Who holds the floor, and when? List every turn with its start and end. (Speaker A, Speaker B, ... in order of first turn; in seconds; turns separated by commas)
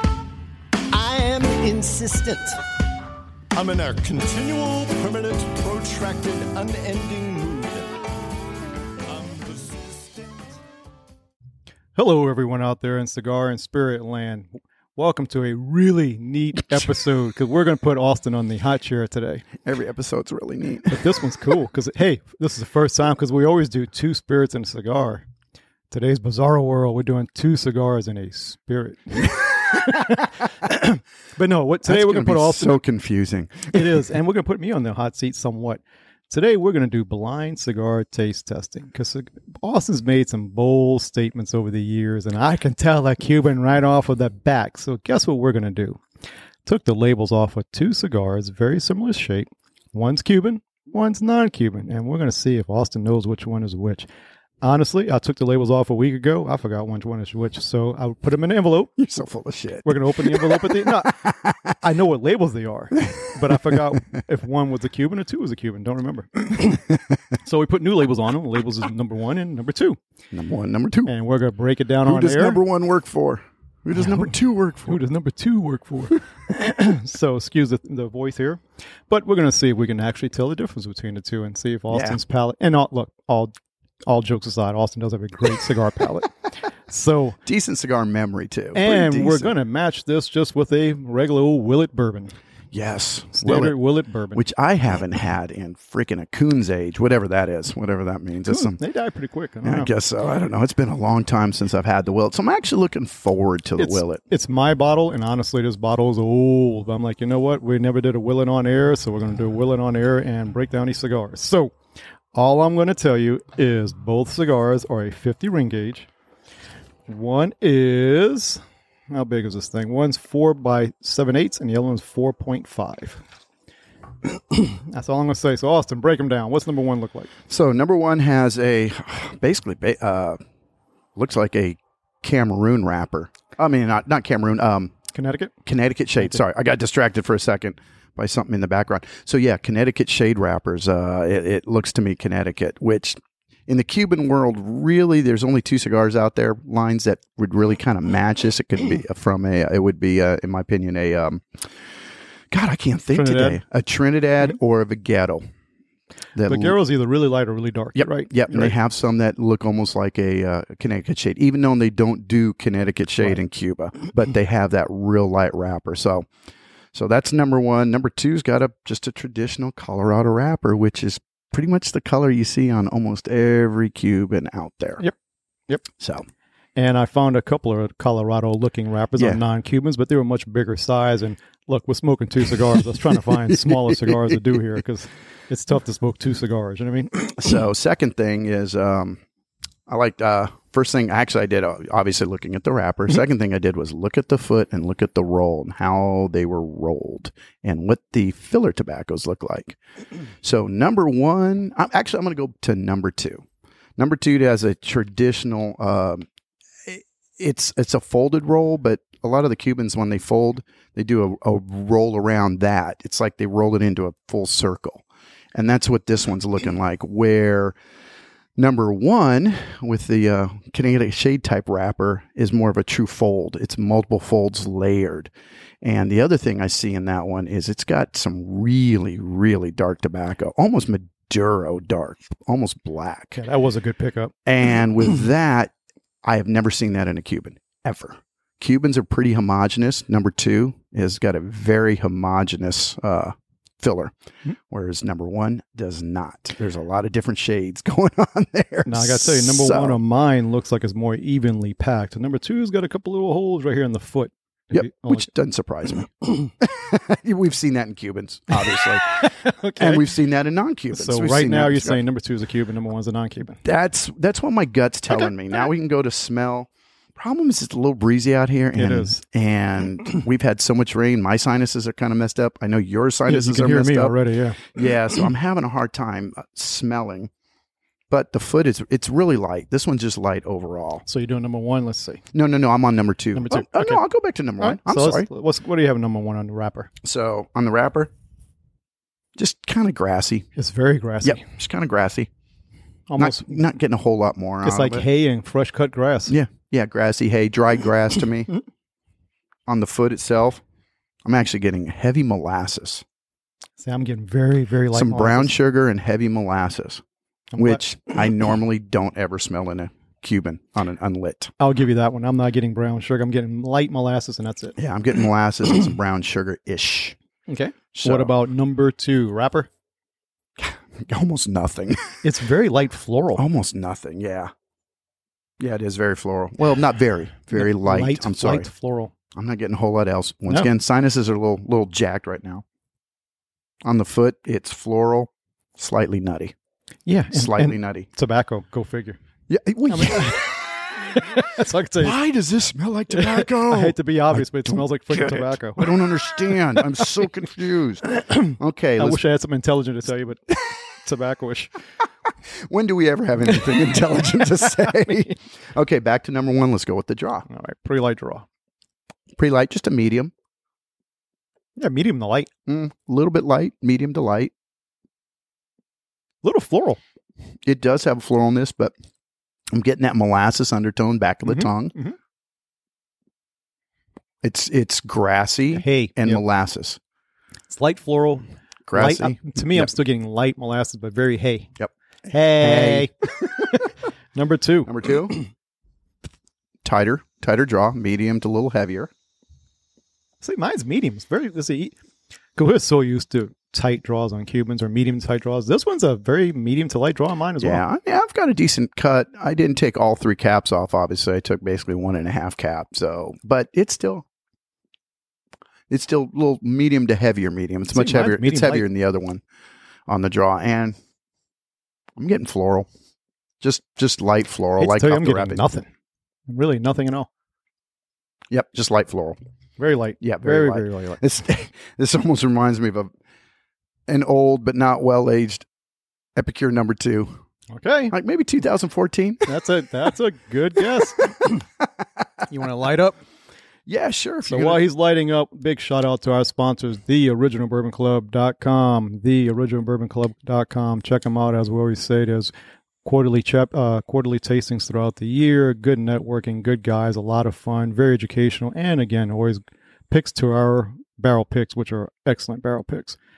Speaker A: 0.9-2.6, Speaker A: 3.5-7.9, Speaker A: 9.1-10.6, Speaker B: 11.9-19.5, Speaker C: 19.6-21.1, Speaker B: 20.9-25.2, Speaker B: 25.9-32.8, Speaker C: 31.9-33.9, Speaker B: 33.7-46.0, Speaker B: 46.7-54.1, Speaker B: 54.6-58.9, Speaker C: 59.0-61.8, Speaker B: 59.8-61.2, Speaker B: 61.8-66.8, Speaker C: 63.1-64.0, Speaker B: 67.4-70.0, Speaker C: 70.3-71.1, Speaker B: 71.1-72.6, Speaker C: 72.0-75.0, Speaker B: 74.0-74.3, Speaker B: 74.9-83.5, Speaker C: 81.9-82.2, Speaker B: 84.1-86.3, Speaker B: 86.9-87.4, Speaker C: 87.5-89.5, Speaker B: 88.8-92.3, Speaker C: 92.7-93.8, Speaker B: 93.4-94.4, Speaker C: 94.3-98.8, Speaker B: 98.5-99.9, Speaker C: 99.6-104.2, Speaker B: 103.8-111.8, Speaker B: 112.3-116.1, Speaker B: 117.1-123.2, Speaker B: 124.5-127.3, Speaker C: 127.5-130.4, Speaker C: 131.2-134.9, Speaker B: 135.1-135.6, Speaker C: 135.7-151.7, Speaker C: 152.5-155.4, Speaker B: 153.1-153.6, Speaker C: 156.4-156.8, Speaker B: 156.4-158.8, Speaker C: 157.9-166.3, Speaker C: 166.9-175.0, Speaker C: 176.0-176.3, Speaker B: 176.8-187.3, Speaker C: 183.1-184.6, Speaker C: 187.3-189.2, Speaker C: 189.9-199.8, Speaker C: 200.4-203.4, Speaker C: 204.0-206.3, Speaker C: 206.8-215.0, Speaker C: 215.6-217.8, Speaker C: 218.6-233.4, Speaker B: 233.4-234.3, Speaker C: 234.5-235.7, Speaker C: 236.2-250.0, Speaker B: 248.9-255.3, Speaker C: 254.7-262.0, Speaker B: 258.7-260.1, Speaker B: 260.9-263.6, Speaker C: 263.6-277.3, Speaker B: 268.7-269.2, Speaker B: 273.3-274.6, Speaker C: 278.1-281.0, Speaker B: 281.1-282.2, Speaker C: 282.3-285.3, Speaker B: 283.3-284.0, Speaker B: 284.6-286.9, Speaker C: 287.0-288.1, Speaker C: 289.4-290.5, Speaker B: 290.6-291.4, Speaker C: 291.2-292.3, Speaker B: 293.1-293.6, Speaker C: 293.2-295.1, Speaker B: 294.6-296.4, Speaker C: 296.3-298.5, Speaker C: 299.7-300.6, Speaker C: 301.2-303.1, Speaker B: 303.8-305.5, Speaker C: 304.9-307.0, Speaker B: 307.5-307.8, Speaker C: 307.6-311.5, Speaker B: 311.6-314.8, Speaker C: 314.8-317.2, Speaker B: 317.5-319.7, Speaker C: 317.9-318.3, Speaker C: 320.6-322.2, Speaker B: 322.2-323.4, Speaker C: 323.4-324.5, Speaker C: 325.6-328.7, Speaker B: 327.5-329.1, Speaker C: 329.4-332.6, Speaker C: 333.9-336.5, Speaker B: 337.1-339.2, Speaker C: 337.3-338.1, Speaker C: 339.5-341.2, Speaker B: 339.9-342.2, Speaker C: 342.0-349.2, Speaker B: 343.1-346.0, Speaker B: 348.2-351.7, Speaker C: 352.5-357.5, Speaker B: 357.5-358.4, Speaker C: 359.4-360.3, Speaker B: 361.8-362.5, Speaker C: 362.7-364.5, Speaker B: 366.4-367.0, Speaker C: 367.6-368.9, Speaker C: 369.7-371.9, Speaker B: 371.5-372.2, Speaker C: 374.4-377.0, Speaker B: 375.7-376.4, Speaker B: 377.7-378.4, Speaker C: 378.9-379.9, Speaker B: 378.9-381.7, Speaker B: 382.3-384.9, Speaker C: 382.5-383.1, Speaker C: 384.9-385.4, Speaker C: 386.8-389.1, Speaker B: 390.4-391.9, Speaker B: 392.6-397.8, Speaker C: 397.6-404.2, Speaker C: 405.9-409.4, Speaker B: 407.9-408.9, Speaker C: 410.1-411.0, Speaker C: 412.2-412.9, Speaker C: 413.6-415.6, Speaker B: 414.8-415.9, Speaker B: 416.5-417.3, Speaker C: 418.5-419.4, Speaker B: 419.8-421.2, Speaker C: 420.2-423.1, Speaker C: 424.1-425.7, Speaker C: 426.4-427.4, Speaker B: 427.7-428.1, Speaker C: 428.1-429.4, Speaker B: 429.5-431.3, Speaker C: 431.2-432.2, Speaker B: 432.5-433.2, Speaker C: 433.9-434.9, Speaker B: 434.4-442.5, Speaker B: 443.0-453.2